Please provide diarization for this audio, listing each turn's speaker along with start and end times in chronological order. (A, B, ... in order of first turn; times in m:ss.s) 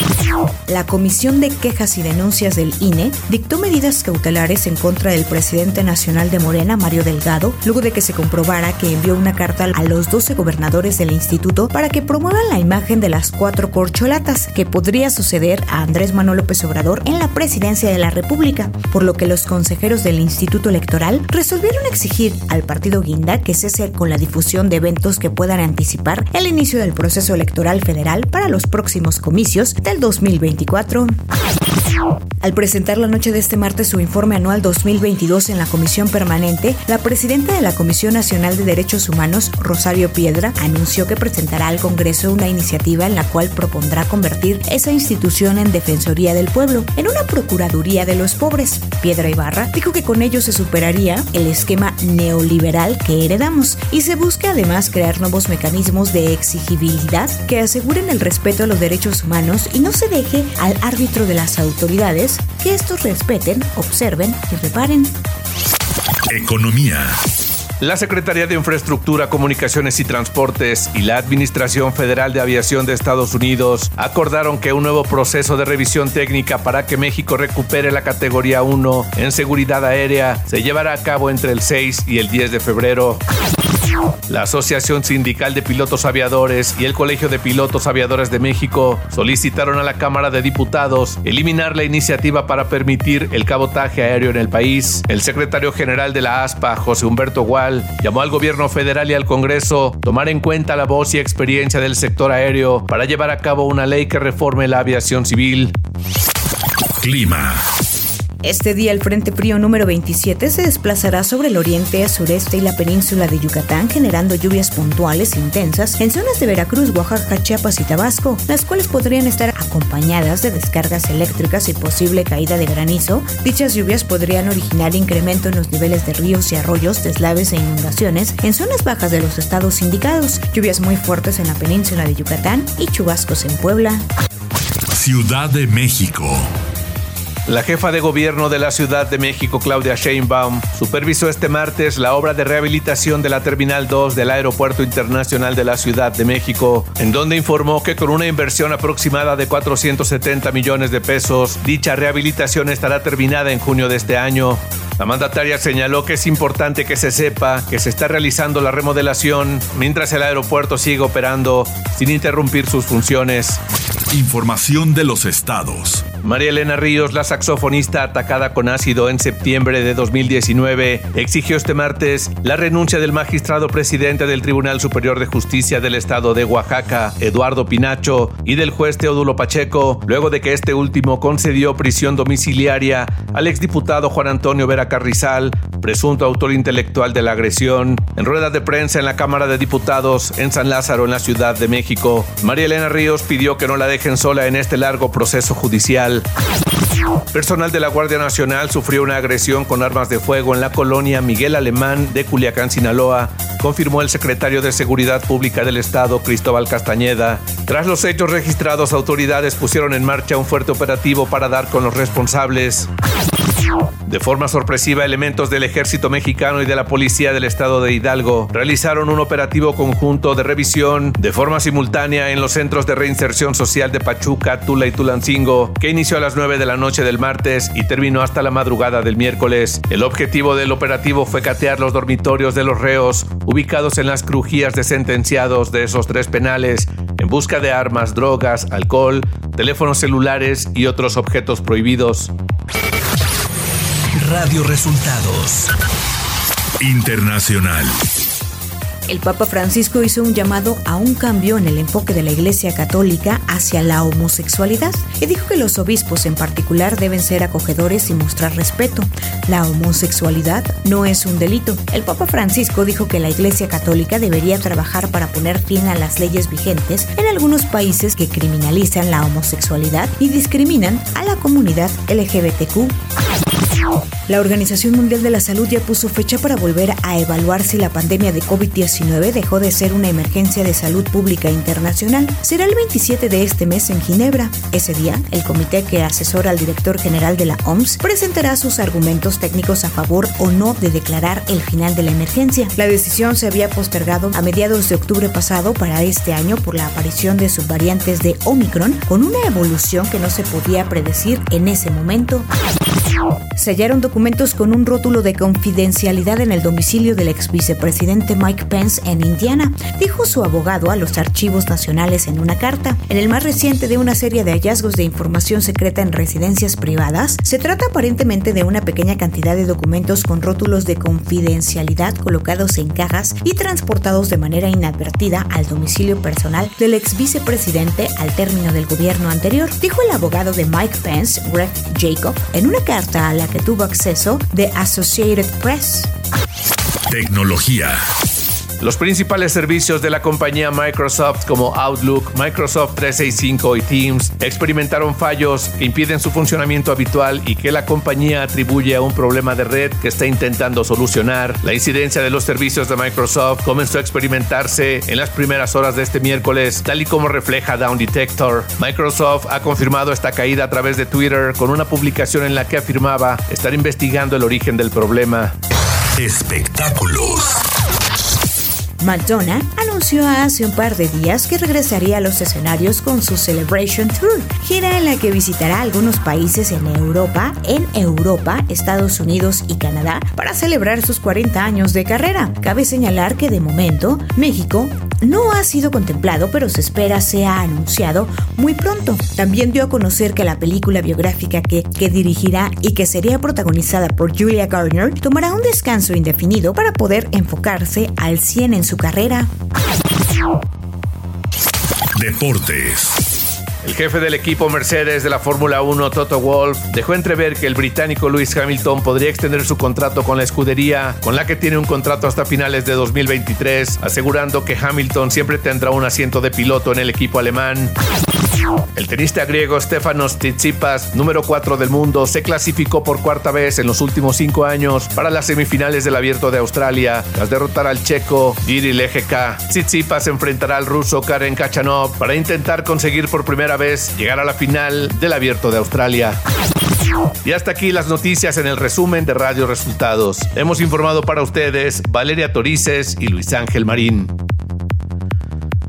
0:00.7-0:31.1 A
0:32.4-1:05.1 A
1:06.3-1:07.2 B
1:07.8-1:23.2 C
1:24.3-1:45.7 C
1:47.0-1:47.6 B
1:48.4-2:14.0 A
2:14.9-2:16.5 B
2:17.4-2:43.6 C
2:44.1-2:46.0 B
2:46.2-3:16.2 C
3:17.3-3:32.9 C
3:34.0-4:02.3 C
4:04.1-4:05.7 C
4:06.8-4:07.9 B
4:09.1-4:32.9 A
4:34.3-5:02.5 A
5:03.5-5:36.1 A
5:37.1-5:38.0 B
5:38.8-6:05.5 C
6:06.2-6:07.6 B
6:09.0-6:39.5 A
6:42.1-6:43.1 B
6:43.8-6:57.9 C
6:58.9-7:16.4 C
7:17.4-7:24.3 C